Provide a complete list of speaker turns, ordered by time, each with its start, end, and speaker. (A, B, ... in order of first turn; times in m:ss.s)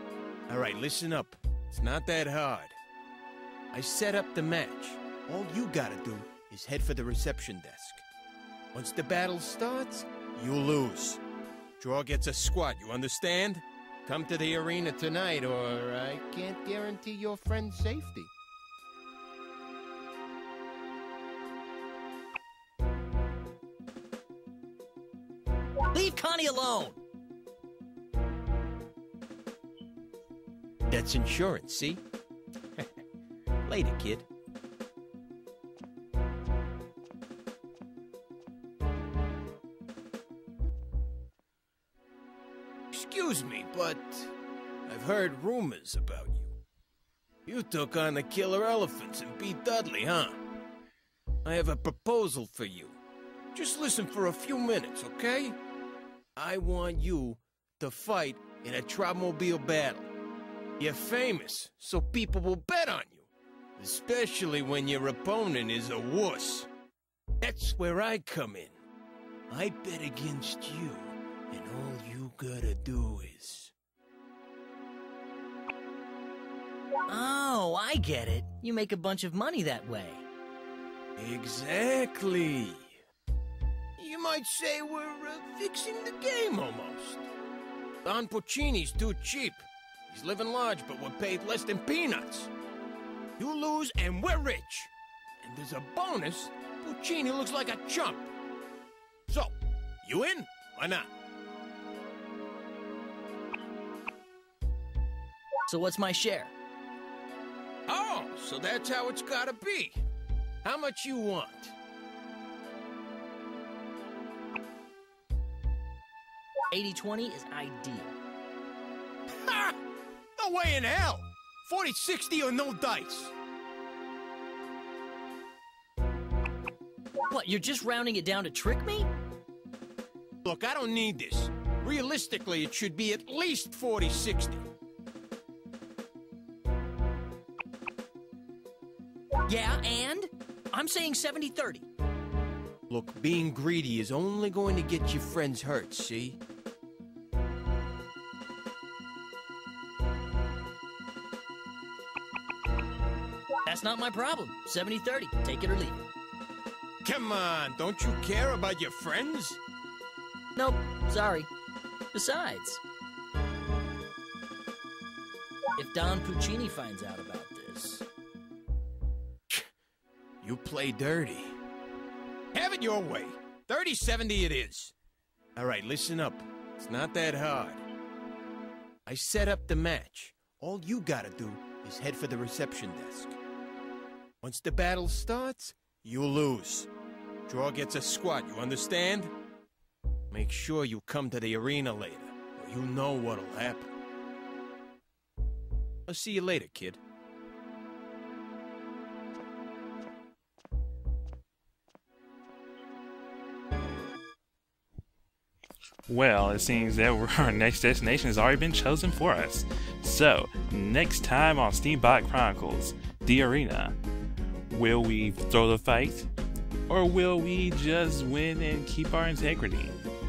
0:00.5-0:02.8 A
0:03.7-0:08.0 A
0:08.7-0:11.2 A
0:11.8-0:18.3 A
0:25.9-0:27.0 B
0:30.9-0:32.0 A
0:33.7-0:34.3 A
0:42.9-0:44.3 A
0:44.9-0:46.6 A
0:47.5-0:50.4 A
0:51.4-0:53.0 A
0:53.5-0:55.6 A
0:56.4-1:00.1 A
1:00.8-1:06.7 A
1:07.4-1:08.7 A
1:09.5-1:13.7 A
1:17.1-1:20.3 B
1:21.2-1:23.0 A
1:24.0-1:27.3 A
1:28.0-1:32.5 A
1:33.4-1:38.3 A
1:39.3-1:41.1 A
1:45.7-1:46.5 B
1:47.9-1:50.0 A
1:50.6-1:51.8 A
1:56.7-1:58.2 B
1:59.4-1:59.8 A
2:00.4-2:03.4 A
2:07.3-2:09.1 B
2:10.4-2:14.7 A
2:19.5-2:21.9 B
2:22.9-2:26.4 A
2:33.6-2:36.1 B
2:37.0-2:39.6 A
2:40.6-2:41.5 B
2:42.1-2:42.8 B
2:45.8-2:48.0 B
2:50.4-2:51.6 A
2:52.5-2:54.9 A
2:55.6-2:57.8 A
2:59.1-3:03.4 A
3:04.4-3:06.9 A
3:07.5-3:09.3 A
3:10.3-3:13.9 A
3:16.1-3:17.0 A
3:26.1-3:34.0 C
3:34.7-3:36.3 C
3:36.9-3:40.0 C